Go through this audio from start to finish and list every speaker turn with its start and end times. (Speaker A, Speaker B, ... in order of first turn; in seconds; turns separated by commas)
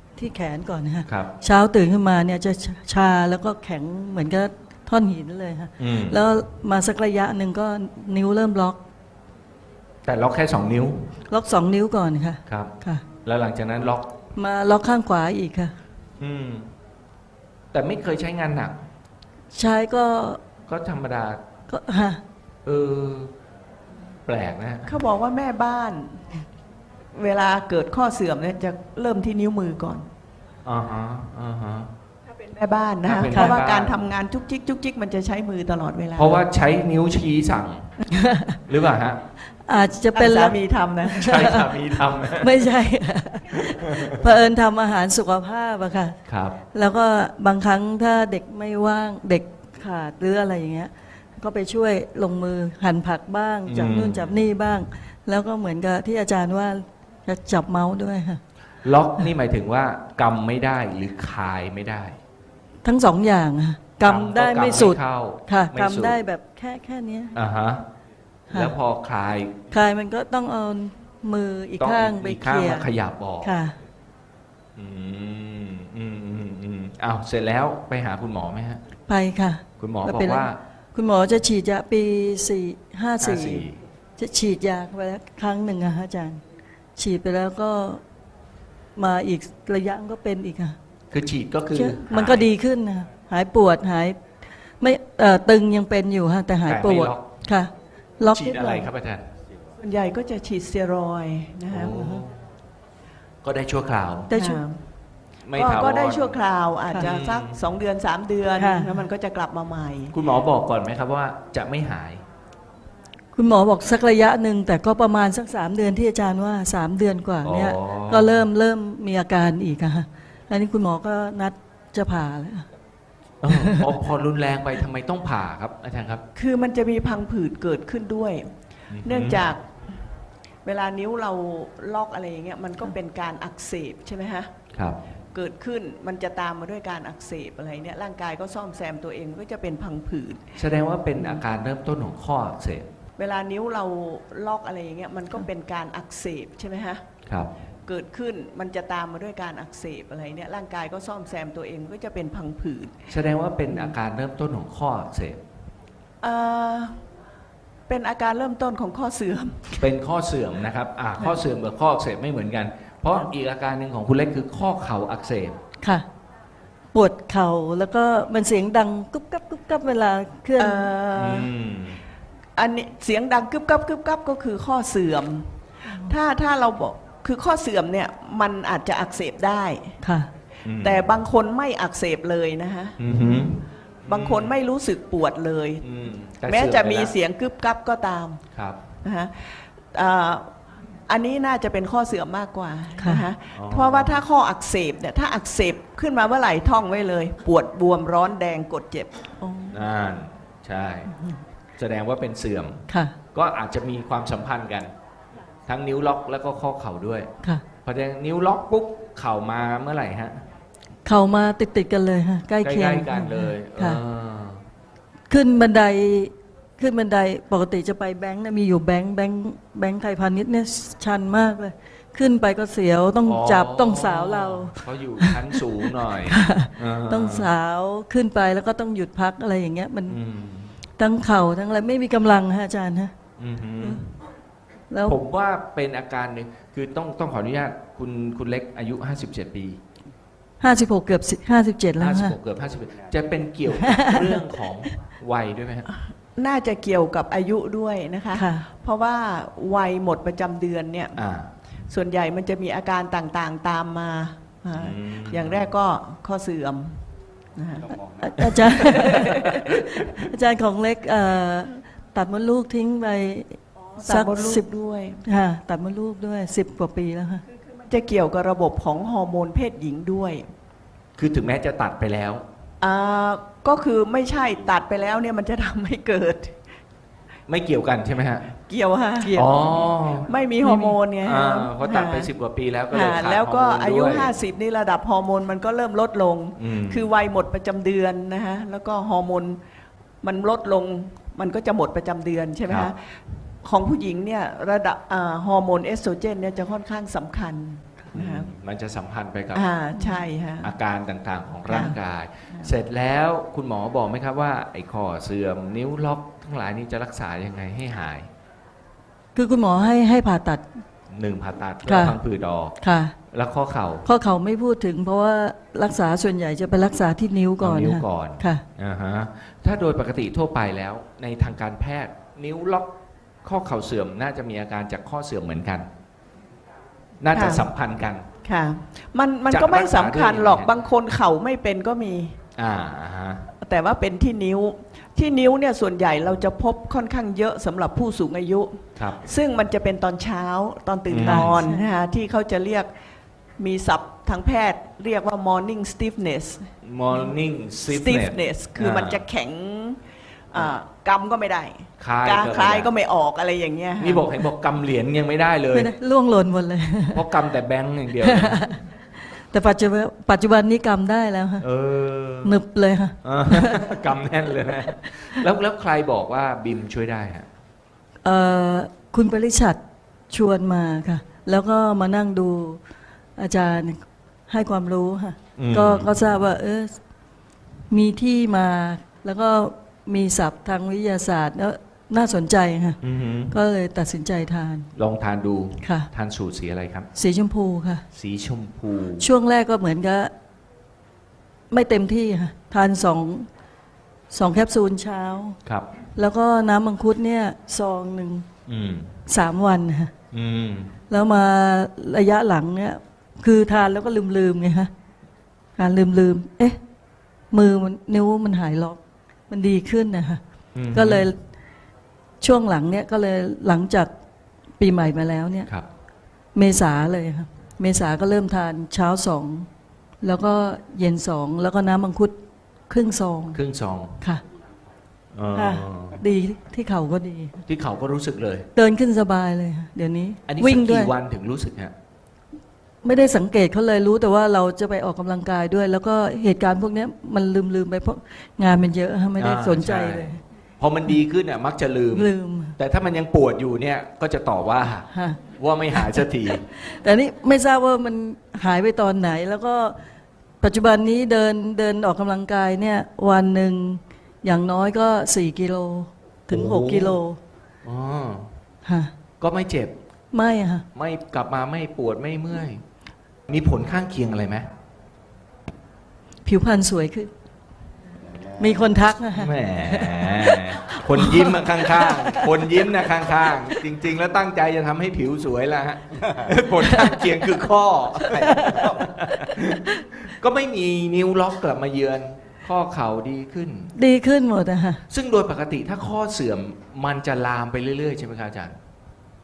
Speaker A: 0.2-8.8, Speaker B: 1.1-1.3, Speaker B: 5.8-6.2, Speaker B: 10.1-11.1, Speaker A: 11.3-13.0, Speaker B: 12.5-12.7, Speaker B: 13.2-14.1, Speaker A: 14.3-15.7, Speaker B: 16.2-16.7, Speaker B: 17.7-18.9, Speaker A: 19.5-20.4, Speaker B: 20.7-21.4, Speaker A: 21.7-22.2, Speaker B: 22.6-23.3, Speaker B: 24.3-24.9, Speaker C: 24.9-26.4, Speaker C: 27.1-30.1, Speaker B: 30.6-31.9, Speaker C: 32.3-36.5, Speaker B: 33.0-34.1, Speaker B: 36.1-37.9, Speaker A: 38.1-38.6, Speaker B: 38.7-39.2, Speaker A: 39.6-40.6, Speaker C: 40.1-41.3, Speaker B: 41.2-42.6, Speaker A: 41.2-41.7, Speaker A: 42.4-46.2, Speaker B: 46.3-46.6, Speaker A: 46.7-58.4, Speaker B: 53.7-54.4, Speaker B: 58.8-62.2, Speaker A: 62.8-67.3, Speaker B: 64.0-66.2, Speaker B: 67.3-67.9, Speaker A: 68.5-68.8, Speaker B: 68.5-69.6, Speaker A: 69.7-72.9, Speaker B: 71.8-73.6, Speaker A: 73.4-73.8, Speaker B: 74.8-78.8, Speaker A: 79.1-86.4, Speaker B: 79.8-80.6, Speaker B: 83.2-83.8, Speaker A: 87.0-88.0, Speaker A: 89.0-90.8, Speaker B: 91.1-92.5, Speaker A: 91.7-94.2, Speaker A: 94.8-98.9, Speaker B: 96.7-97.3, Speaker B: 98.3-99.3, Speaker C: 99.8-102.2, Speaker B: 101.7-102.4, Speaker B: 103.4-104.3, Speaker A: 104.3-104.6, Speaker C: 104.3-104.8, Speaker B: 105.5-106.4, Speaker C: 105.5-110.2, Speaker B: 106.9-107.6, Speaker A: 108.6-109.0, Speaker B: 110.1-112.2, Speaker A: 113.3-122.7, Speaker B: 117.4-118.4, Speaker B: 123.4-126.2, Speaker A: 123.5-123.9, Speaker C: 126.3-129.7, Speaker B: 128.9-129.5, Speaker C: 130.6-134.5, Speaker B: 134.7-135.0, Speaker C: 135.3-140.5, Speaker B: 140.6-142.9, Speaker C: 143.2-147.1, Speaker B: 147.3-147.5, Speaker C: 147.9-153.0, Speaker B: 153.1-155.4, Speaker C: 153.7-153.9, Speaker C: 156.2-157.0, Speaker C: 157.9-159.9, Speaker B: 159.8-165.6, Speaker A: 166.9-170.9, Speaker C: 170.6-171.5, Speaker B: 171.2-172.0, Speaker C: 172.6-180.0, Speaker A: 180.0-180.3, Speaker B: 180.7-181.2, Speaker C: 180.8-183.4, Speaker B: 183.0-184.6, Speaker C: 184.1-185.8, Speaker B: 185.8-187.1, Speaker C: 186.5-188.4, Speaker C: 189.0-199.2, Speaker A: 193.0-193.3, Speaker B: 193.6-194.2, Speaker A: 199.4-199.8, Speaker B: 199.7-201.1, Speaker A: 201.1-201.4, Speaker B: 201.8-204.9, Speaker A: 202.9-203.2, Speaker B: 205.7-207.3, Speaker B: 207.8-210.4, Speaker A: 211.1-214.0, Speaker B: 212.6-214.7, Speaker A: 215.3-230.2, Speaker B: 223.2-227.5, Speaker B: 230.1-230.8, Speaker A: 231.0-233.1, Speaker B: 233.4-234.2, Speaker A: 233.8-234.1, Speaker A: 234.9-235.2, Speaker B: 235.1-239.8, Speaker A: 240.6-242.4, Speaker B: 242.0-245.9, Speaker A: 243.8-244.3, Speaker C: 245.9-251.2, Speaker A: 248.3-248.6, Speaker B: 251.2-251.5, Speaker C: 251.9-258.0, Speaker B: 254.7-255.7, Speaker A: 258.2-259.3, Speaker B: 258.4-259.2, Speaker C: 258.9-259.4, Speaker A: 260.3-264.7, Speaker C: 263.9-265.2, Speaker A: 265.2-267.4, Speaker C: 267.7-270.5, Speaker B: 271.2-272.4, Speaker C: 272.8-276.6, Speaker B: 277.5-278.5, Speaker C: 278.6-279.4, Speaker A: 279.2-279.9, Speaker B: 279.3-280.3, Speaker C: 280.2-282.3, Speaker A: 280.6-281.0, Speaker B: 281.2-284.4, Speaker C: 282.9-289.6, Speaker B: 286.6-287.1, Speaker C: 290.2-298.5, Speaker B: 292.7-292.9, Speaker B: 298.1-299.7, Speaker C: 299.5-300.8, Speaker A: 299.9-300.3, Speaker B: 300.6-308.3, Speaker C: 301.7-301.9, Speaker C: 302.5-302.8, Speaker A: 309.4-310.8, Speaker B: 311.1-312.8, Speaker A: 311.9-312.2, Speaker A: 312.8-313.1, Speaker B: 313.3-314.1, Speaker A: 314.0-318.6, Speaker B: 317.6-322.9, Speaker B: 323.4-325.9, Speaker B: 327.2-328.2, Speaker C: 327.3-327.7, Speaker C: 328.4-332.4, Speaker B: 329.5-330.7, Speaker B: 332.6-333.5, Speaker C: 333.6-342.9, Speaker B: 339.0-339.2, Speaker B: 341.1-341.6, Speaker A: 341.3-341.9, Speaker C: 343.6-347.3, Speaker B: 346.8-349.3, Speaker C: 347.9-354.4, Speaker B: 352.0-352.9, Speaker B: 354.0-355.9, Speaker A: 355.7-357.3, Speaker B: 357.1-358.7, Speaker A: 358.3-358.8, Speaker A: 359.5-361.6, Speaker B: 361.6-362.6, Speaker A: 362.4-363.9, Speaker B: 363.2-367.5, Speaker A: 368.2-369.8, Speaker A: 370.3-372.8, Speaker A: 373.4-377.0, Speaker B: 375.6-376.1, Speaker A: 377.9-383.0, Speaker B: 383.0-383.5, Speaker A: 383.5-384.9, Speaker B: 385.0-387.1, Speaker A: 385.8-386.1, Speaker A: 387.1-388.0, Speaker B: 388.1-389.3, Speaker A: 389.2-390.3, Speaker A: 391.7-393.5, Speaker A: 394.3-395.6, Speaker A: 396.2-398.5, Speaker B: 398.7-399.1, Speaker A: 399.3-400.1, Speaker B: 400.3-401.0, Speaker A: 401.1-404.9, Speaker A: 405.8-406.8, Speaker A: 407.5-410.4, Speaker B: 410.8-411.3, Speaker A: 410.9-411.4, Speaker A: 412.4-414.1, Speaker A: 414.8-415.7, Speaker A: 416.6-419.7, Speaker A: 420.2-422.4, Speaker A: 422.9-423.6, Speaker B: 423.5-424.2, Speaker B: 425.3-426.2, Speaker A: 425.5-427.6, Speaker B: 427.7-428.7, Speaker A: 428.8-431.1, Speaker B: 430.5-431.9, Speaker A: 433.0-440.4, Speaker B: 439.4-446.6, Speaker A: 442.1-442.8, Speaker A: 445.1-445.4, Speaker A: 445.9-450.0, Speaker A: 450.6-457.4, Speaker B: 456.5-457.2, Speaker B: 457.8-458.6, Speaker A: 458.9-459.1, Speaker B: 459.4-459.9, Speaker A: 460.3-460.8, Speaker B: 460.9-462.8, Speaker B: 463.5-464.7, Speaker A: 466.4-467.3, Speaker A: 468.6-472.5, Speaker B: 469.3-483.9, Speaker A: 476.9-477.2, Speaker A: 478.4-480.0, Speaker A: 483.9-485.0, Speaker B: 485.1-488.8